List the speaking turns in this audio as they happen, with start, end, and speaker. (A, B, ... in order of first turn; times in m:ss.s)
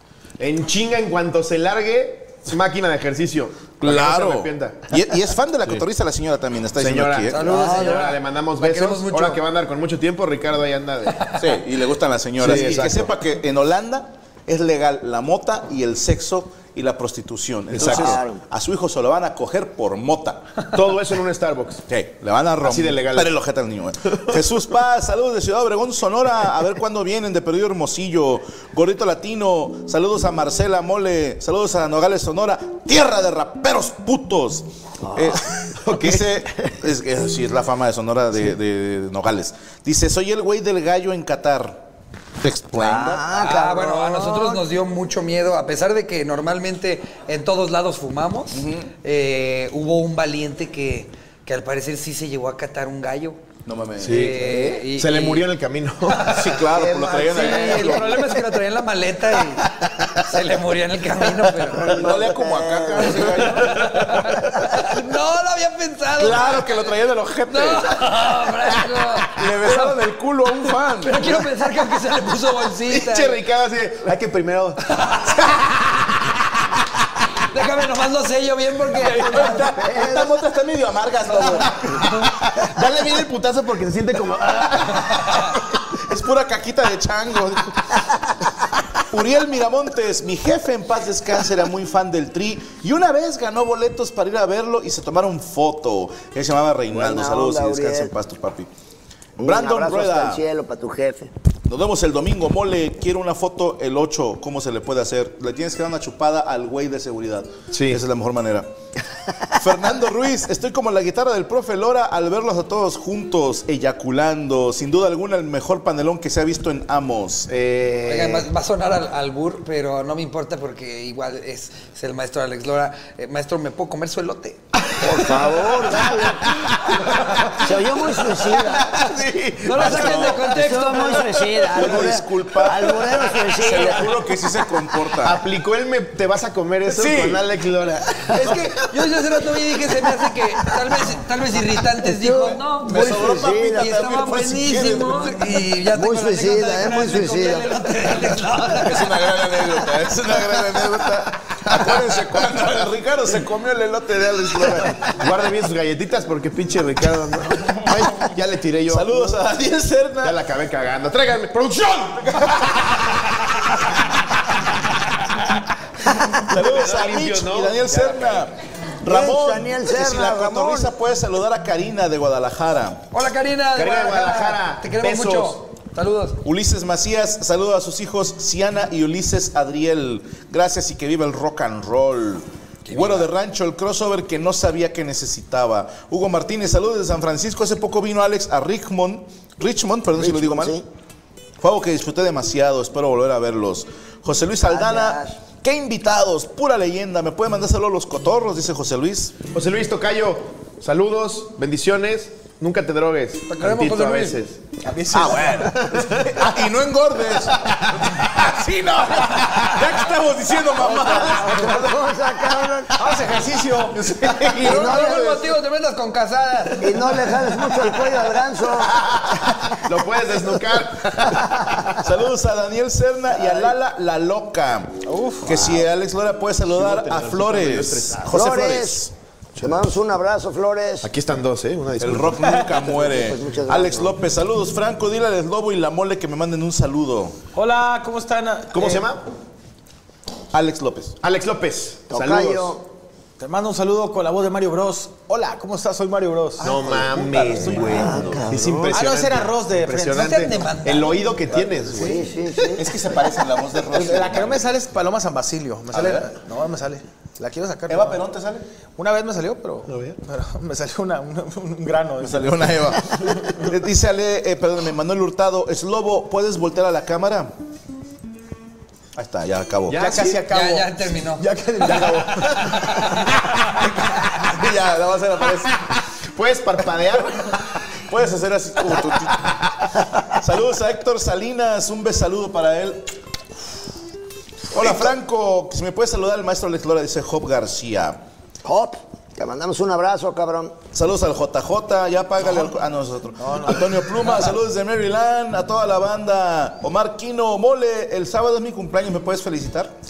0:00.4-0:05.0 A
0:03.8-0:07.4 B
0:06.8-0:11.3 A
0:07.3-0:09.4 C
0:07.4-0:08.1 D
0:11.4-0:20.4 B
0:12.4-0:13.2 A
0:17.7-0:18.2 A
0:17.7-0:18.4 D
0:20.7-0:21.8 A
0:21.9-0:41.8 B
0:22.6-0:23.3 A
0:42.4-0:43.2 B
0:42.8-0:44.6 D
0:43.3-0:53.4 C
0:48.5-0:48.9 B
0:53.7-0:54.3 B
0:54.0-0:56.4 A
0:54.0-0:55.5 C
0:56.1-1:02.0 C
0:56.3-0:58.3 B
0:56.7-0:58.2 D
1:01.8-1:03.5 D
1:01.8-1:04.2 B
1:03.5-1:06.9 C
1:06.2-1:08.2 B
1:07.5-1:10.0 C
1:09.2-1:11.3 B
1:11.0-1:13.4 C
1:12.9-1:14.8 A
1:15.0-1:15.6 C
1:17.5-1:19.7 C
1:19.2-1:22.3 B
1:19.3-1:20.3 D
1:22.6-1:25.4 A
1:26.0-1:28.0 B
1:29.1-1:38.7 B
1:36.9-1:38.1 D
1:39.4-1:41.3 D
1:39.4-1:40.4 B
1:41.7-1:48.7 B
1:47.7-1:48.0 A
1:49.5-1:57.5 B
1:57.5-1:58.5 A
1:58.1-2:04.6 C
2:05.0-2:06.7 D
2:06.8-2:07.6 B
2:07.6-2:09.0 D
2:08.8-2:10.6 B
2:09.6-2:11.8 C
2:09.8-2:14.2 D
2:11.6-2:15.4 B
2:15.1-2:18.8 A
2:16.9-2:17.4 B
2:18.3-2:29.1 C
2:22.0-2:24.0 D
2:22.8-2:25.4 B
2:25.9-2:27.7 D
2:28.8-2:35.2 B
2:35.1-2:39.4 A
2:38.9-2:40.4 B
2:40.2-2:42.9 A
2:42.4-2:42.8 B
2:46.2-2:53.0 B
2:46.5-2:48.5 A
2:49.1-2:50.9 D
2:53.1-2:56.4 C
2:53.7-2:55.6 A
2:56.4-3:10.8 B
3:02.9-3:03.3 C
3:10.2-3:10.8 D
3:11.6-3:19.4 B
3:14.6-3:15.4 D
3:19.5-3:24.6 A
3:23.5-3:24.4 C
3:24.8-3:26.0 E
3:25.1-3:32.0 B
3:25.8-3:26.4 A
3:30.8-3:33.0 D
3:33.0-3:34.5 E
3:33.9-3:35.4 B
3:34.6-3:37.4 C
3:34.6-3:35.3 D
3:36.8-3:39.0 D
3:39.1-3:39.4 B
3:39.8-3:42.0 A
3:42.0-3:49.1 B
3:45.0-3:45.6 E
3:46.7-3:48.4 A
3:48.3-3:51.1 D
3:51.0-3:52.6 A
3:52.0-3:57.4 B
3:52.8-3:54.2 D
3:57.6-3:59.1 E
3:58.7-3:59.2 A
4:00.5-4:01.2 B
4:01.2-4:02.8 A
4:02.1-4:02.8 D
4:03.4-4:08.2 E
4:06.6-4:12.3 A
4:07.5-4:07.9 B
4:07.8-4:09.0 D
4:08.9-4:10.4 E
4:10.1-4:11.4 C
4:12.0-4:12.8 D
4:12.7-4:14.7 B
4:13.9-4:18.2 E
4:15.9-4:16.3 B
4:17.9-4:18.6 B
4:19.0-4:23.1 E
4:19.9-4:20.2 A
4:22.2-4:27.5 B
4:29.2-4:30.0 B
4:29.9-4:30.4 A
4:30.0-4:33.0 E
4:30.5-4:31.4 C
4:32.6-4:33.3 B
4:34.1-4:35.8 B
4:36.3-4:37.6 A
4:38.1-4:43.1 B
4:44.7-4:48.2 B
4:48.6-4:50.8 D
4:50.9-4:59.9 B
4:53.4-4:54.1 E